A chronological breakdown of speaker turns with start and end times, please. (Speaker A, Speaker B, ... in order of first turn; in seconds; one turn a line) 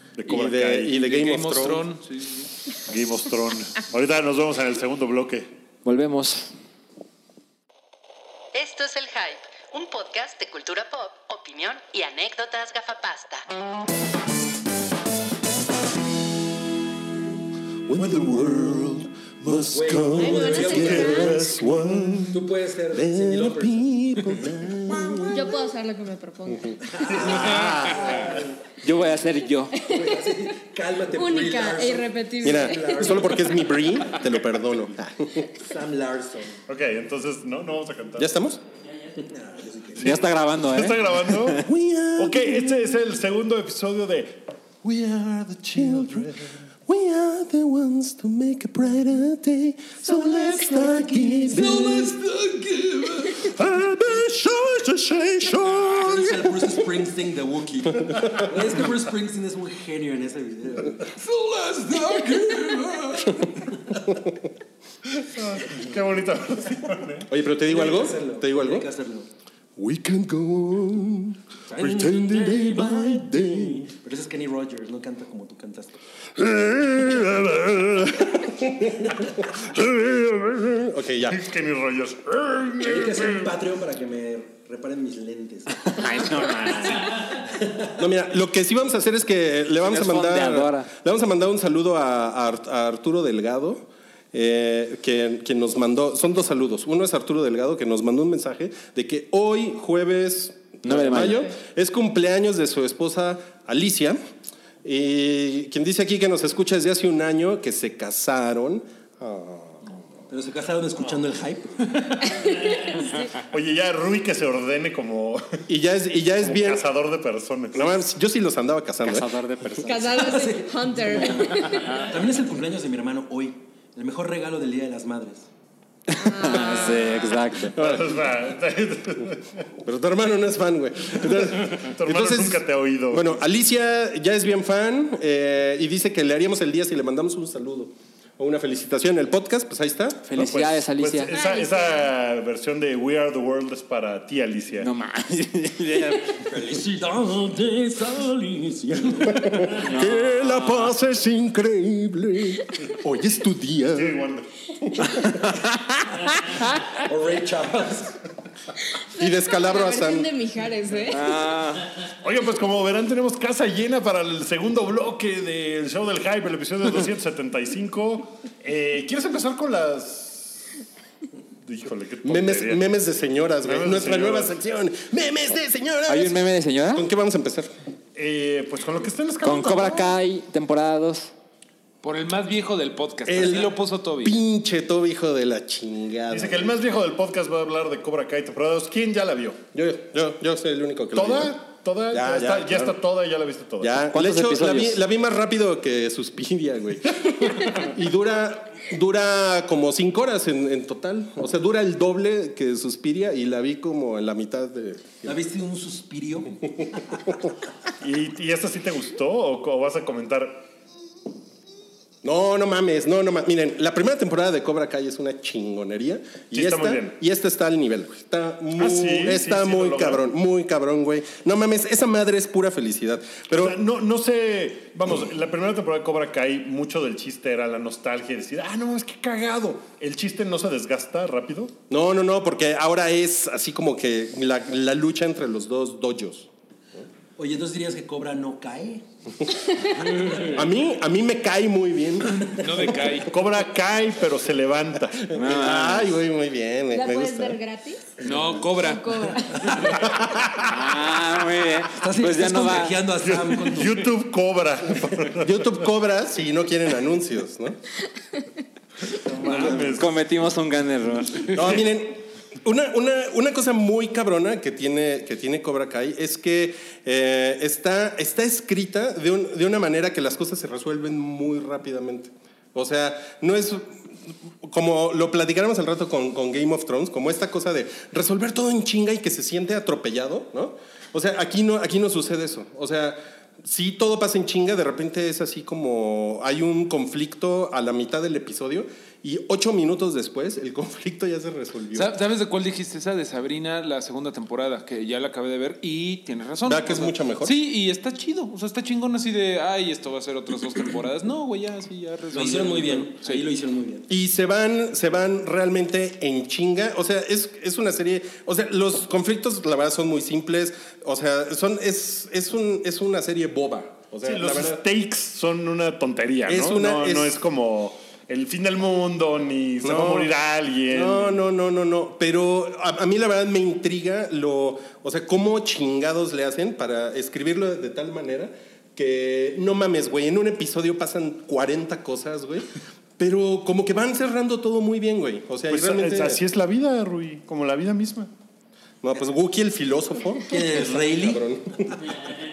Speaker A: 0.2-1.0
Speaker B: 0.3-1.8
Speaker C: 0.9-2.5
Speaker A: 2.9-5.5
Speaker D: 5.8-6.5
Speaker E: 8.5-13.4
Speaker B: 17.9-19.1
Speaker A: 17.9-22.4
Speaker F: 19.7-23.9
Speaker B: 19.8-22.2
Speaker G: 20.2-21.4
Speaker B: 22.9-25.5
Speaker G: 25.3-27.1
Speaker F: 26.9-28.5
Speaker B: 27.1-28.4
Speaker C: 27.3-28.3
Speaker D: 28.8-29.8
Speaker F: 29.8-33.9
Speaker G: 29.9-30.3
Speaker G: 31.1-33.4
Speaker B: 32.4-35.5
Speaker F: 35.6-36.6
Speaker A: 36.7-38.3
Speaker B: 38.2-38.6
Speaker F: 39.2-40.2
Speaker A: 40.0-41.6
Speaker D: 40.0-41.7
Speaker B: 41.6-42.9
Speaker A: 42.2-46.5
Speaker B: 45.8-46.3
Speaker B: 46.9-52.1
Speaker F: 50.1-53.4
Speaker A: 53.4-56.4
Speaker B: 53.5-54.2
Speaker B: 55.3-55.9
Speaker F: 56.0-63.2
Speaker B: 58.1-58.4
Speaker A: 65.2-67.3
Speaker B: 67.3-68.9
Speaker F: 67.6-69.3
Speaker B: 69.8-73.9
Speaker F: 71.7-76.0
Speaker A: 72.3-73.5
Speaker A: 76.4-78.3
Speaker B: 78.4-79.1
Speaker A: 79.7-80.7
Speaker B: 79.8-81.4
Speaker A: 81.3-83.5
Speaker F: 82.8-86.4
Speaker D: 85.9-87.2
Speaker F: 87.1-88.0
Speaker B: 88.0-104.2
Speaker D: 89.8-90.9
Speaker D: 100.8-101.5
Speaker B: 104.8-109.8
Speaker F: 110.3-112.0
Speaker A: 113.4-115.6
Speaker B: 115.7-116.8
Speaker A: 116.4-118.0
Speaker B: 117.7-119.3
Speaker D: 119.0-120.0
Speaker G: 119.8-122.1
Speaker F: 120.1-125.5
Speaker D: 126.1-127.8
Speaker G: 126.1-127.5
Speaker A: 127.6-129.6
Speaker B: 127.7-128.2
Speaker B: 129.8-140.3
Speaker A: 131.2-133.4
Speaker D: 140.3-141.3
Speaker A: 140.3-144.9
Speaker G: 141.3-142.1
Speaker D: 144.8-146.4
Speaker F: 146.4-149.8
Speaker B: 149.4-154.2
Speaker D: 149.8-150.9
Speaker A: 153.9-154.5
Speaker B: 154.8-155.5
Speaker F: 156.9-158.2
Speaker G: 158.9-161.4
Speaker B: 159.2-160.3
Speaker D: 161.1-161.9
Speaker A: 162.0-170.6
Speaker A: 171.7-172.8
Speaker B: 172.2-176.4
Speaker A: 173.6-174.5
Speaker D: 176.1-177.1
Speaker B: 176.9-177.7
Speaker A: 178.2-180.2
Speaker D: 179.4-181.3
Speaker C: 182.0-184.4
Speaker B: 183.3-186.7
Speaker A: 186.3-189.6
Speaker B: 189.7-191.6
Speaker A: 191.1-194.1
Speaker B: 192.1-193.0
Speaker B: 193.8-205.4
Speaker D: 194.1-195.0
Speaker F: 205.2-206.6
Speaker A: 208.0-210.7
Speaker B: 212.2-223.8
Speaker A: 216.5-217.2
Speaker A: 218.8-220.2
Speaker A: 223.5-231.7
Speaker B: 231.9-237.1
Speaker F: 237.4-239.0
Speaker F: 240.2-240.6
Speaker B: 240.4-242.7
Speaker C: 242.5-243.3
Speaker A: 243.3-245.4
Speaker B: 245.3-247.6
Speaker D: 245.3-246.2
Speaker G: 246.9-248.1
Speaker C: 248.2-249.2
Speaker G: 248.8-250.0
Speaker B: 250.0-250.4
Speaker D: 250.6-253.0
Speaker F: 251.9-254.1
Speaker A: 253.2-255.8
Speaker B: 255.4-257.8
Speaker A: 259.2-260.2
Speaker D: 259.5-261.6
Speaker B: 261.5-273.9
Speaker B: 274.6-292.1
Speaker C: 291.9-303.5
Speaker B: 296.7-297.5
Speaker F: 302.3-304.1
Speaker B: 304.1-314.8
Speaker A: 314.2-321.4
Speaker B: 316.5-317.4
Speaker B: 319.8-320.3
Speaker B: 320.9-336.4
Speaker A: 335.7-338.3
Speaker B: 339.0-342.1
Speaker F: 340.5-341.4